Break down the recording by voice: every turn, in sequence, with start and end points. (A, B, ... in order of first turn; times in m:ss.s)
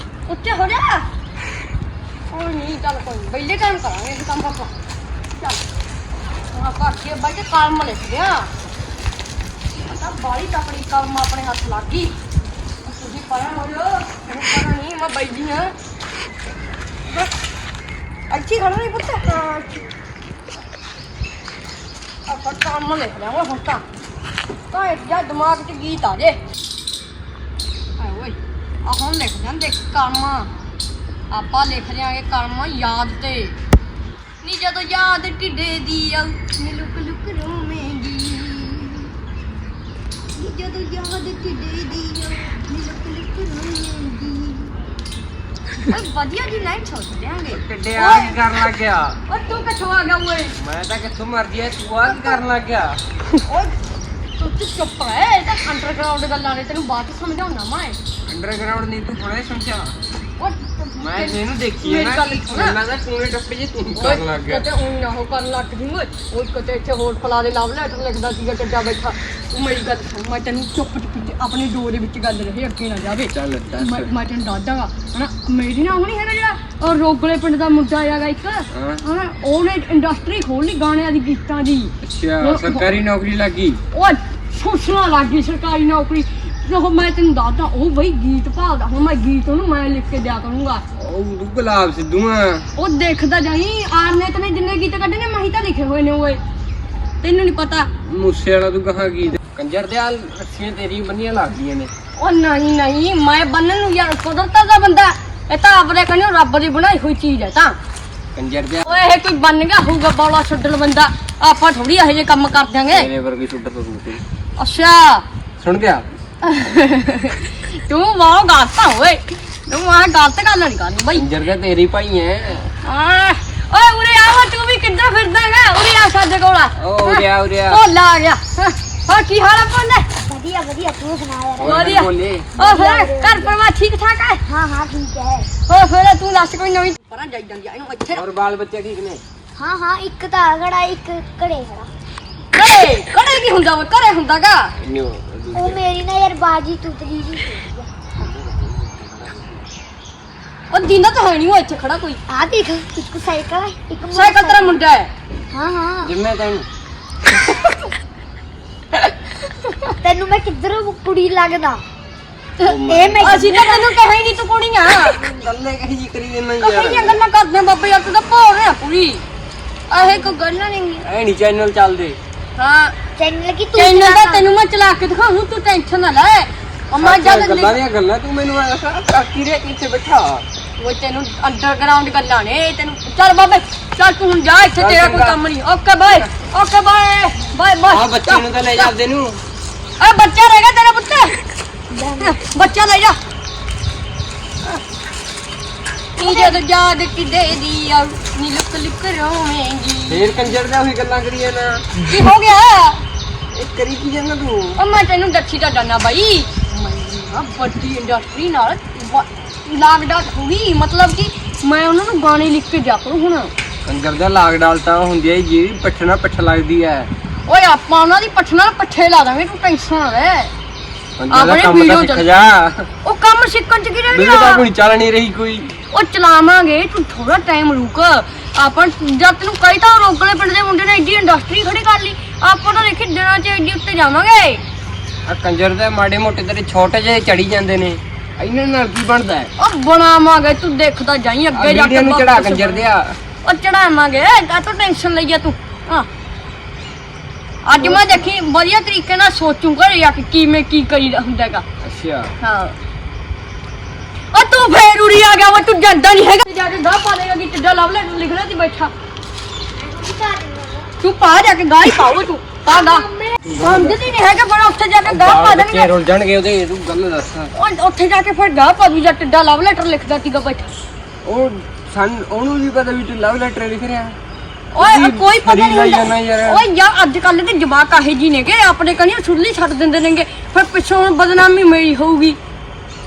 0:00.3-0:01.1 A
0:02.3-0:04.7 A
0:06.5-0:08.5 A
0:09.7-0:12.1 A
0:12.8-0:15.7 A
0:18.3-0:19.8 A
0:22.3-0:23.8 A
0:24.7-0:26.4 A
0:28.0-0:30.5 A
0:31.3-0:33.6 A
0:34.4-0:39.1 A
0:40.3-0:44.7 A
0:45.8-0:48.6 A
0:47.5-0:49.2 B
0:49.3-0:50.6 A
0:50.6-0:53.0 B
0:52.0-0:52.4 A
0:53.4-0:53.7 A
0:54.4-0:58.0 A
0:58.3-1:00.0 B
1:00.4-1:02.8 A
1:01.0-1:04.7 B
1:03.9-1:22.9 A
1:13.3-1:14.1 B
1:18.7-1:19.0 B
1:22.0-1:23.8 B
1:23.9-1:30.8 A
1:31.0-1:32.6 B
1:32.8-1:36.4 A
1:37.2-1:37.9 A
1:38.0-1:41.9 B
1:42.2-1:47.8 A
1:48.3-1:48.9 B
1:48.8-1:53.1 A
1:52.9-1:54.2 B
1:54.6-1:55.2 A
1:55.6-1:56.0 B
1:56.4-2:01.2 A
2:01.1-2:02.7 B
2:02.8-2:10.1 A
2:06.8-2:07.8 B
2:10.2-2:11.8 C
2:11.6-2:12.5 B
2:11.6-2:14.4 A
2:12.6-2:13.6 C
2:14.4-2:15.5 C
2:15.7-2:18.2 A
2:18.1-2:19.2 B
2:19.6-2:21.9 C
2:22.5-2:24.7 A
2:24.8-2:25.8 B
2:25.5-2:28.3 C
2:28.2-2:29.6 B
2:30.7-2:32.2 A
2:32.3-2:34.8 C
2:34.1-2:35.1 A
2:35.5-2:36.1 C
2:36.0-2:36.7 B
2:39.6-2:39.9 A
2:40.0-2:41.8 C
2:42.6-2:45.2 A
2:42.6-2:43.4 B
2:42.8-2:43.9 C
2:45.0-2:47.2 B
2:46.6-2:49.2 A
2:49.9-2:51.0 A
2:51.0-2:52.2 B
2:52.6-2:52.9 A
2:53.2-2:54.5 C
2:53.7-2:57.8 A
2:57.0-3:00.4 B
3:00.8-3:08.9 A
3:04.8-3:05.4 B
3:07.9-3:09.4 B
3:10.0-3:11.4 A
3:11.9-3:12.4 C
3:12.2-3:13.2 A
3:16.2-3:20.3 A
3:16.2-3:16.5 C
3:20.1-3:22.0 B
3:22.0-3:23.0 A
3:23.5-3:24.8 B
3:24.8-3:33.5 A
3:33.8-3:37.1 B
3:37.5-3:40.5 A
3:41.2-3:42.9 B
3:41.3-3:42.2 A
3:43.0-3:44.6 A
3:44.1-3:45.8 B
3:45.9-3:54.6 A
3:55.2-3:59.5 B
3:59.6-4:02.8 A
4:01.5-4:03.2 B
4:03.4-4:06.1 A
4:07.6-4:11.6 A
4:07.7-4:08.3 B
4:11.8-4:12.3 B
4:12.4-4:12.8 A
4:14.3-4:18.9 A
4:19.7-4:20.9 C
4:21.0-4:25.9 A
4:22.7-4:23.4 C
4:23.4-4:24.1 B
4:25.0-4:27.5 B
4:27.5-4:30.7 A
4:31.2-4:34.2 B
4:34.7-4:42.4 A
4:34.8-4:36.6 B